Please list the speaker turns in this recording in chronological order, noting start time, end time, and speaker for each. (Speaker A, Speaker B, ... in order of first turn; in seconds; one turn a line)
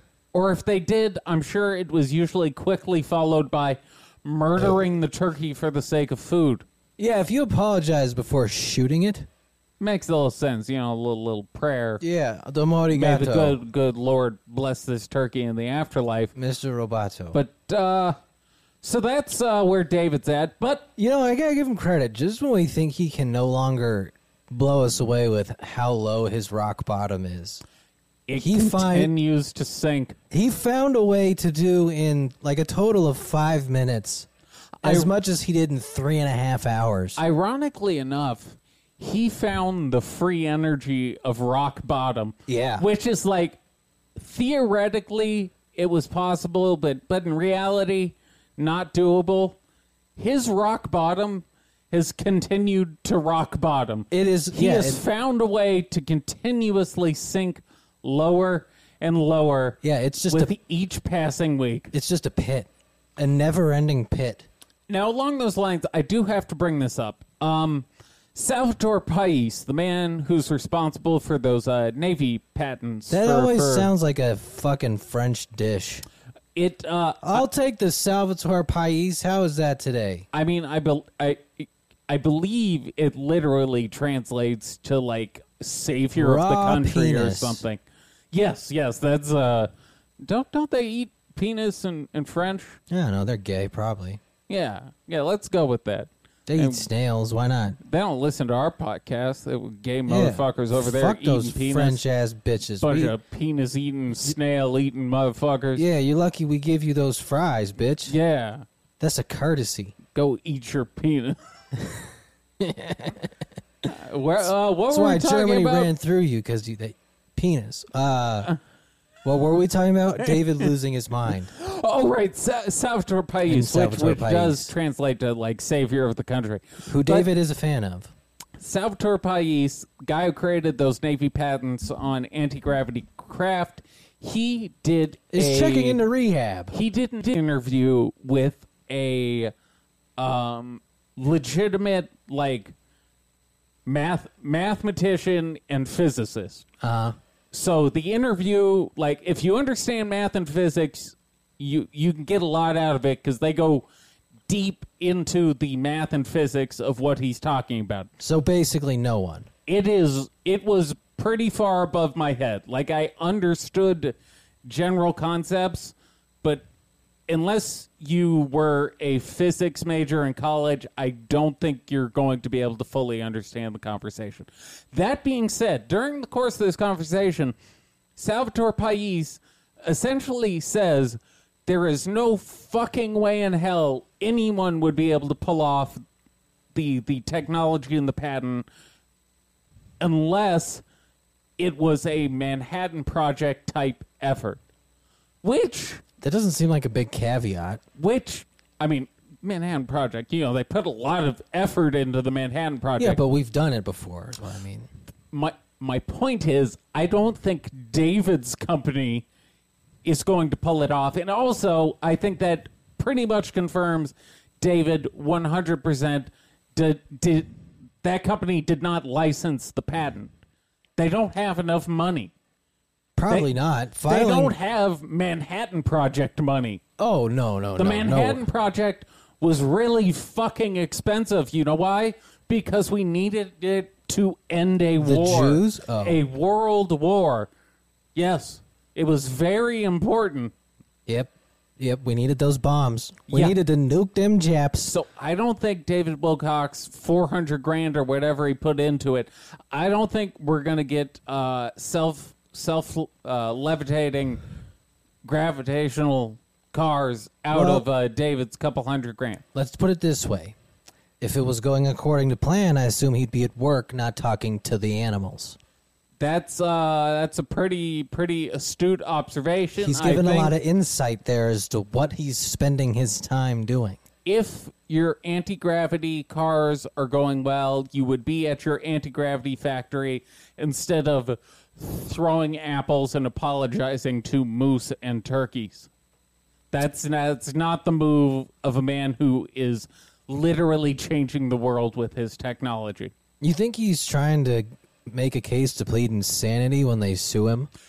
Speaker A: 0.3-6.6
Speaker B: 4.6-4.8
Speaker B: 7.0-9.3
Speaker A: 9.8-12.0
Speaker B: 12.0-13.6
Speaker A: 12.9-16.3
Speaker B: 16.3-17.4
Speaker A: 17.3-18.1
Speaker A: 18.8-20.9
Speaker B: 21.0-27.6
Speaker A: 28.3-30.2
Speaker B: 28.4-29.1
Speaker B: 30.3-34.3
Speaker A: 34.8-35.1
Speaker B: 34.8-37.2
Speaker A: 37.2-43.6
Speaker B: 42.5-42.9
Speaker A: 44.2-49.6
Speaker A: 50.2-61.9
Speaker B: 54.1-55.0
Speaker B: 59.8-60.5
Speaker B: 61.9-64.5
Speaker A: 64.9-73.9
Speaker B: 73.1-76.0
Speaker A: 76.5-77.5
Speaker B: 77.2-80.3
Speaker A: 80.3-89.7
Speaker B: 86.2-87.6
Speaker A: 90.2-92.8
Speaker B: 92.9-94.2
Speaker A: 94.5-96.9
Speaker B: 96.5-97.8
Speaker A: 97.8-102.0
Speaker B: 100.1-103.2
Speaker A: 102.8-105.8
Speaker B: 105.8-108.1
Speaker A: 108.1-108.6
Speaker B: 109.0-110.0
Speaker A: 110.1-111.4
Speaker B: 112.6-113.3
Speaker A: 113.8-115.9
Speaker B: 114.9-118.5
Speaker B: 119.2-121.5
Speaker A: 121.5-127.3
Speaker B: 123.5-124.7
Speaker B: 126.9-128.1
Speaker A: 128.6-136.0
Speaker B: 135.3-136.7
Speaker A: 136.7-139.5
Speaker A: 140.2-142.7
Speaker A: 143.8-146.6
Speaker B: 146.8-147.2
Speaker A: 147.5-153.9
Speaker A: 154.5-158.1
Speaker B: 158.2-159.5
Speaker A: 159.7-166.6
Speaker A: 167.3-177.5
Speaker A: 178.2-186.0
Speaker A: 186.7-188.7
Speaker A: 190.0-190.8
Speaker A: 191.6-194.6
Speaker A: 195.4-196.0
Speaker B: 196.2-197.8
Speaker A: 198.0-203.2
Speaker B: 203.0-204.9
Speaker A: 205.3-209.2
Speaker A: 210.0-220.3
Speaker A: 221.0-222.3
Speaker B: 223.2-224.5
Speaker A: 223.3-223.5
Speaker A: 224.0-226.8
Speaker B: 227.0-228.4
Speaker A: 227.8-237.5
Speaker B: 235.0-236.2
Speaker A: 238.1-240.5
Speaker B: 241.1-244.9
Speaker A: 243.3-243.6
Speaker A: 244.9-254.4
Speaker A: 255.2-259.4
Speaker B: 257.5-257.9
Speaker B: 259.5-260.6
Speaker B: 261.2-265.6
Speaker A: 266.2-270.5
Speaker B: 269.8-274.0
Speaker A: 274.2-285.9
Speaker A: 286.7-293.1
Speaker B: 293.4-297.7